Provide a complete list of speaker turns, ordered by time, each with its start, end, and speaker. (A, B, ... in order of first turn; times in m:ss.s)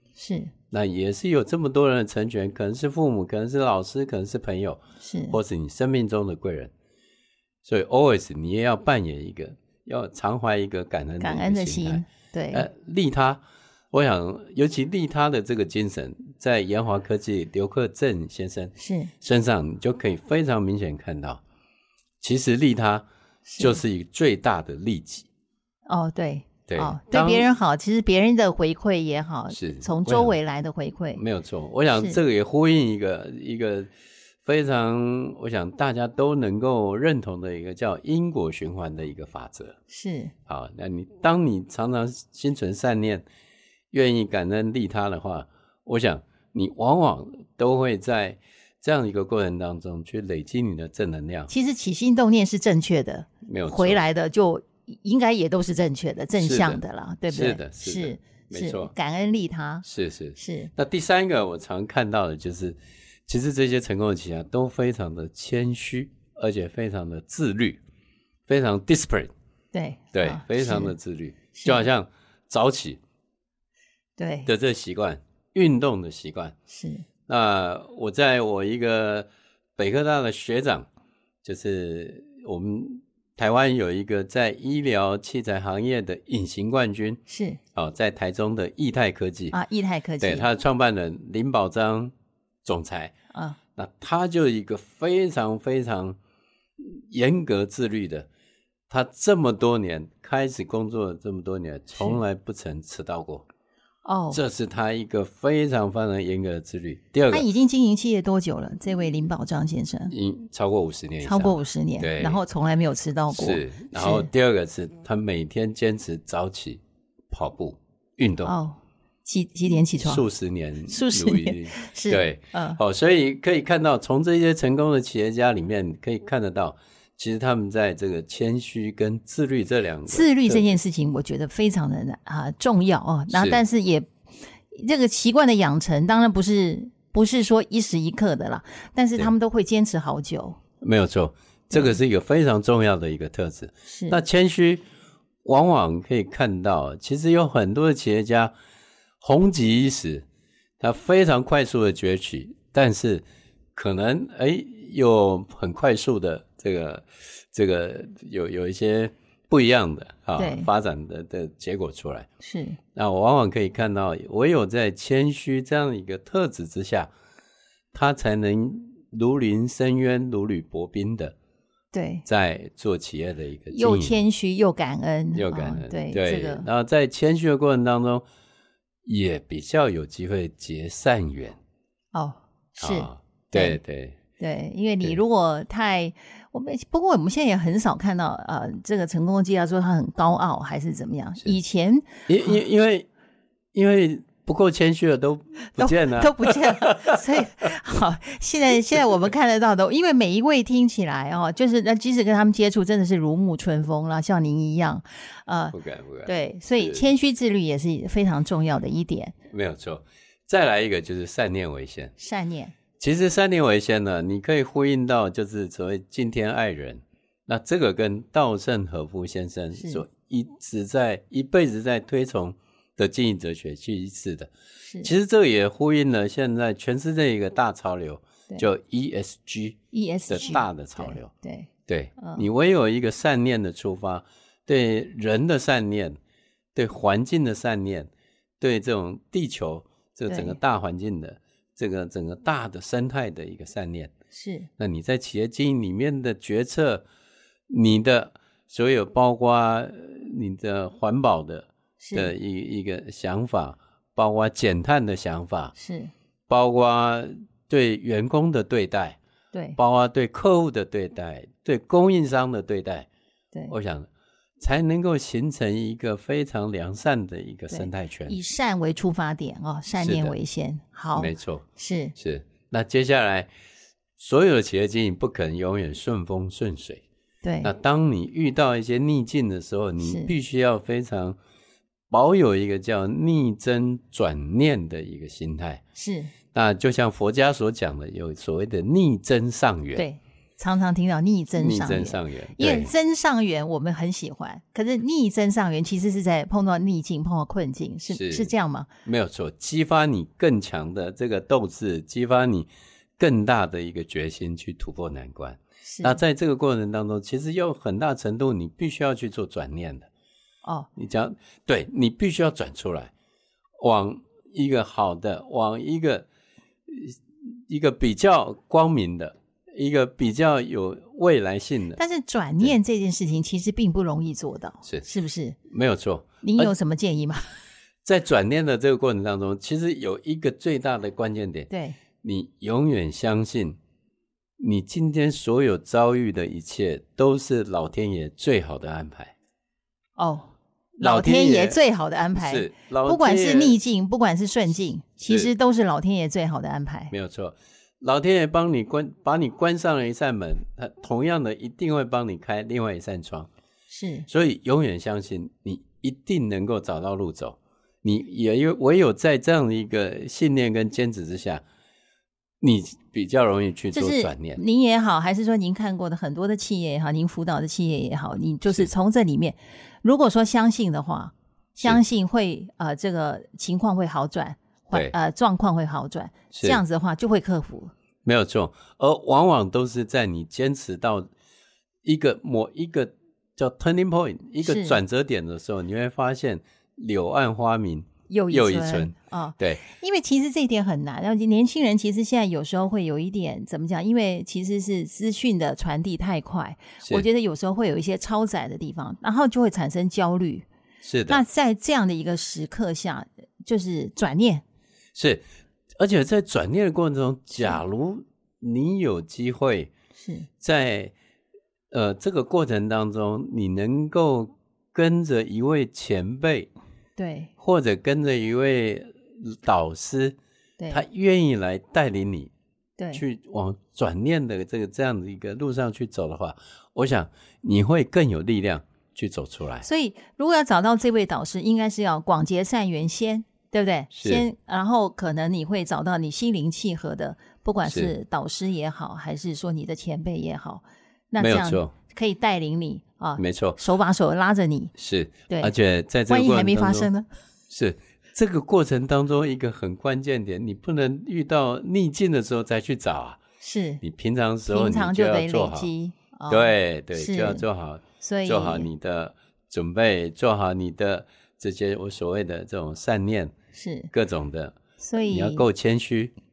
0:00.2-0:00.5 A
0:00.7-0:06.7 B
0:05.0-0:05.4 A
0:07.6-0:13.4 B
0:11.2-0:12.7 A
0:13.9-0:21.4 B
0:18.8-0:19.1 A
0:22.2-0:23.0 B
0:23.5-0:23.8 A
0:23.6-0:25.3 B
0:25.9-0:31.2 A
0:26.7-0:27.5 B
0:29.5-0:30.4 B
0:31.2-0:33.9 B
0:34.4-0:39.8 B
0:39.9-0:40.3 A
0:40.5-0:43.2 B
0:43.9-0:51.5 B
0:51.5-0:59.8 A
0:53.4-0:54.0 B
0:56.4-0:58.9 B
0:59.8-1:07.8 B
1:00.4-1:00.7 A
1:08.5-1:09.3 B
1:09.7-1:10.9 A
1:10.1-1:13.0 B
1:11.5-1:11.9 A
1:14.2-1:14.5 A
1:14.5-1:16.6 B
1:16.7-1:17.1 A
1:17.3-1:20.9 B
1:21.4-1:27.2 B
1:27.3-1:27.6 A
1:27.8-1:29.6 B
1:29.5-1:30.5 A
1:30.2-1:32.1 B
1:32.6-1:33.1 B
1:33.8-1:36.2 B
1:36.8-1:38.3 B
1:38.9-1:43.5 B
1:44.0-1:44.4 A
1:44.3-1:47.5 B
1:47.3-1:50.1 A
1:50.1-1:52.4 B
1:51.2-1:54.3 A
1:53.3-1:58.5 B
1:58.4-2:00.2 A
2:00.0-2:10.8 B
2:00.9-2:02.8 A
2:10.1-2:14.1 A
2:13.3-2:13.6 B
2:14.7-2:20.6 A
2:20.8-2:24.8 B
2:21.7-2:22.0 A
2:23.9-2:24.2 A
2:25.4-2:28.5 B
2:29.2-2:30.3 B
2:30.8-2:33.2 B
2:33.8-2:42.3 B
2:40.4-2:40.7 A
2:42.4-2:42.8 A
2:43.0-2:47.1 B
2:47.9-2:51.4 B
2:51.9-2:52.2 A
2:52.3-2:54.2 B
2:53.7-2:56.7 A
2:55.4-2:58.2 B
2:59.1-3:01.6 B
3:02.1-3:03.8 A
3:02.8-3:04.2 B
3:04.4-3:12.5 A
3:12.3-3:13.1 B
3:13.7-3:17.2 B
3:15.8-3:29.4 A
3:25.7-3:27.0 B
3:29.5-3:32.1 B
3:32.2-3:32.7 A
3:33.0-3:44.5 B
3:39.8-3:40.0 A
3:44.9-3:45.1 A
3:45.0-3:49.8 B
3:49.9-3:52.5 A
3:50.3-3:51.3 B
3:51.9-3:56.2 B
3:56.8-3:58.1 B
3:58.6-4:04.1 B
4:00.3-4:00.6 A
4:04.3-4:04.7 A
4:04.8-4:07.0 B
4:07.7-4:15.8 B
4:12.0-4:12.3 A
4:15.8-4:16.1 A
4:16.5-4:19.2 B
4:19.5-4:19.8 A
4:19.8-4:23.1 B
4:23.7-4:24.1 B
4:24.6-4:28.4 B
4:27.7-4:32.2 A
4:30.0-4:30.4 B
4:31.2-4:31.6 B
4:32.2-4:33.5 B
4:34.2-4:37.0 B
4:37.4-4:37.7 A
4:37.6-4:41.4 B
4:40.0-4:40.3 A
4:42.1-4:45.8 B
4:46.0-4:46.3 A
4:46.5-4:50.0 B
4:50.0-4:58.9 A
4:51.6-4:52.9 B
4:58.1-4:58.5 B
4:59.1-5:10.1 B
5:05.8-5:06.2 A
5:11.0-5:13.1 B
5:13.8-5:16.3 B
5:16.9-5:22.0 B
5:22.0-5:25.6 A
5:25.7-5:26.7 B
5:26.4-5:27.5 A
5:28.0-5:31.7 B
5:31.7-5:32.0 A
5:32.2-5:33.8 B
5:34.6-5:39.3 B
5:40.2-5:47.1 A
5:41.0-5:41.8 B
5:42.4-5:43.8 B
5:45.3-5:45.5 B
5:47.1-5:53.5 B
5:53.9-5:54.3 A
5:54.3-6:01.6 B
6:02.6-6:04.6 B
6:03.9-6:17.9 A
6:16.5-6:16.8 B
6:18.2-6:21.3 B
6:22.0-6:29.8 B
6:24.6-6:25.0 A
6:28.3-6:40.7 A
6:41.0-6:41.4 B
6:41.3-6:44.6 A
6:45.2-6:45.4 B
6:46.0-6:49.9 B
6:50.2-6:50.5 A
6:50.6-6:51.1 B
6:51.9-6:56.7 B
6:57.2-6:57.5 A
6:57.6-7:00.4 B
7:00.8-7:01.0 A
7:00.9-7:02.5 B
7:03.0-7:03.2 A
7:03.1-7:09.9 B
7:09.8-7:24.9 A
7:14.1-7:14.4 B
7:17.9-7:18.1 B
7:21.4-7:21.9 B
7:23.4-7:23.8 B
7:25.0-7:27.1 B
7:25.5-7:25.7 A
7:26.3-7:27.3 A
7:27.7-7:33.4 B
7:33.6-7:34.0 A
7:34.0-7:35.9 B
7:34.7-7:37.6 A
7:36.5-7:43.5 B
7:38.2-7:38.9 A
7:43.7-7:44.1 A
7:44.1-7:46.3 B
7:45.0-7:45.6 A